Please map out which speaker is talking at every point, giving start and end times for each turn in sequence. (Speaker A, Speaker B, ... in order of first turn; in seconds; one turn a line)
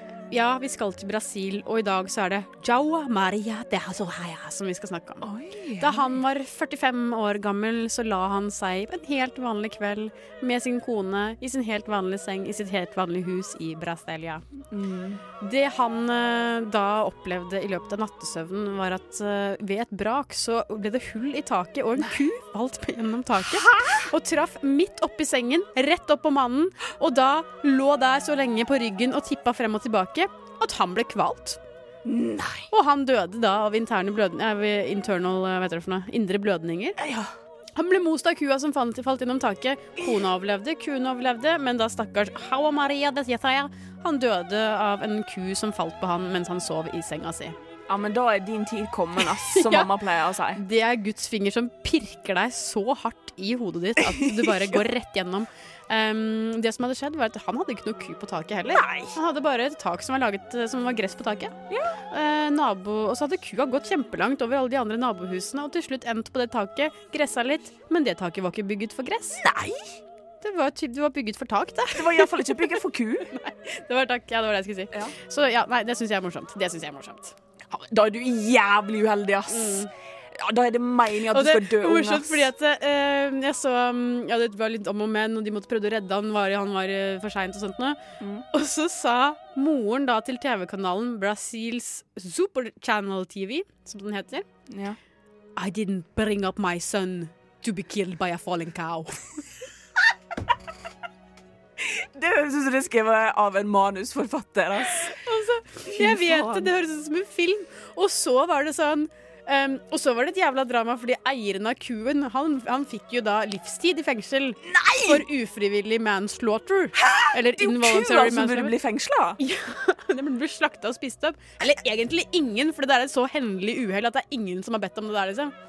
Speaker A: 0.3-5.3
Speaker B: 5.2-6.2
Speaker A: 5.8-14.4
Speaker B: 14.7-15.2
Speaker A: 15.4-31.6
Speaker B: 23.6-24.1
Speaker B: 32.0-32.7
Speaker A: 32.7-37.0
Speaker B: 37.0-37.3
Speaker A: 37.8-47.5
Speaker B: 47.9-50.6
Speaker A: 49.5-49.9
Speaker A: 50.6-61.5
Speaker B: 54.1-54.8
Speaker B: 58.7-59.1
Speaker B: 61.7-62.0
Speaker A: 62.1-69.4
Speaker B: 69.4-70.0
Speaker A: 70.4-72.7
Speaker B: 72.0-73.3
Speaker A: 73.3-77.3
Speaker B: 77.7-82.5
Speaker A: 79.5-79.9
Speaker A: 81.3-88.0
Speaker B: 88.2-88.5
Speaker A: 88.5-94.5
Speaker B: 94.7-95.0
Speaker A: 95.6-99.3
Speaker B: 101.8-105.2
Speaker A: 105.2-118.7
Speaker B: 105.9-106.7
Speaker B: 114.7-115.2
Speaker B: 117.0-119.4
Speaker A: 119.4-125.5